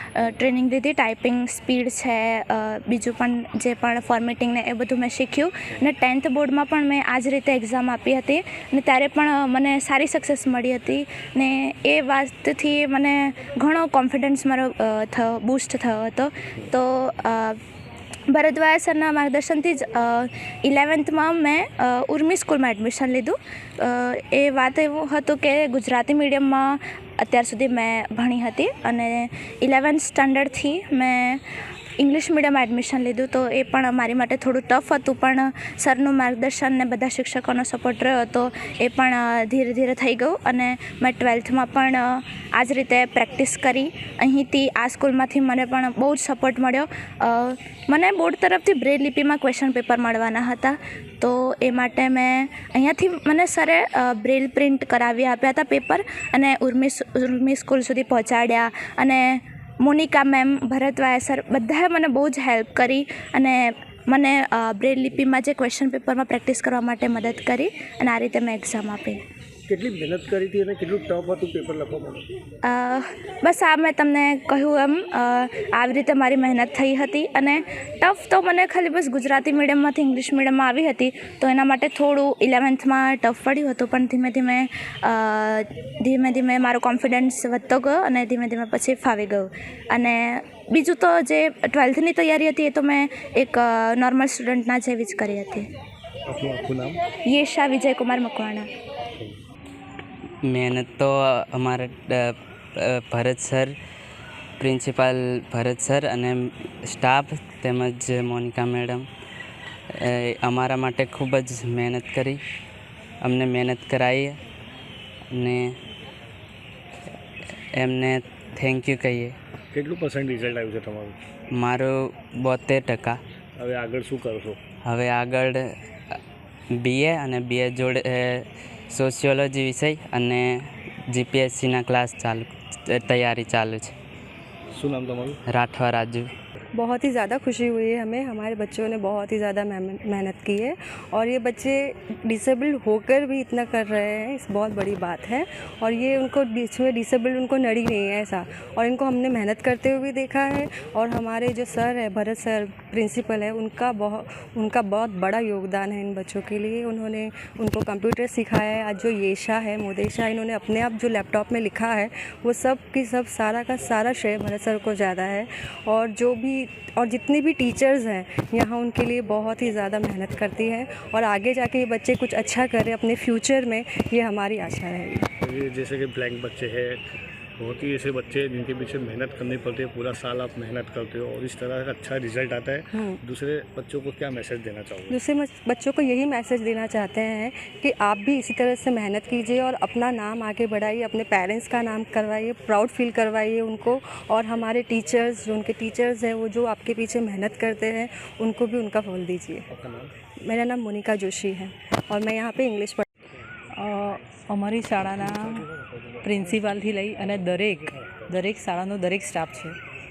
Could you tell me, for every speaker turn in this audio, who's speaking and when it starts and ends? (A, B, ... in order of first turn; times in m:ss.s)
0:00.2-0:17.6 A
0:18.3-0:31.4 A
0:32.0-1:09.2 A
1:09.7-1:12.3 B
1:12.6-1:35.7 A
1:36.3-1:37.0 B
1:37.3-1:38.7 A
1:40.4-1:43.7 C
1:44.6-1:49.1 C
1:49.9-1:52.4 C
1:53.2-1:54.4 C
1:55.3-1:55.7 C
1:57.8-1:59.3 C
1:59.7-2:01.2 B
2:01.5-2:03.2 C
2:03.6-2:04.6 B
2:04.8-2:05.6 C
2:06.8-2:10.5 C
2:11.1-2:13.9 C
2:14.7-2:15.4 B
2:15.5-2:16.3 C
2:16.7-2:55.3 D
2:55.4-2:57.0 B
2:57.6-3:05.2 B
3:02.9-3:03.2 D
3:05.1-3:19.7 D
3:19.8-3:20.1 B
3:20.4-3:23.0 D
3:23.8-3:25.7 E
3:26.2-3:29.8 E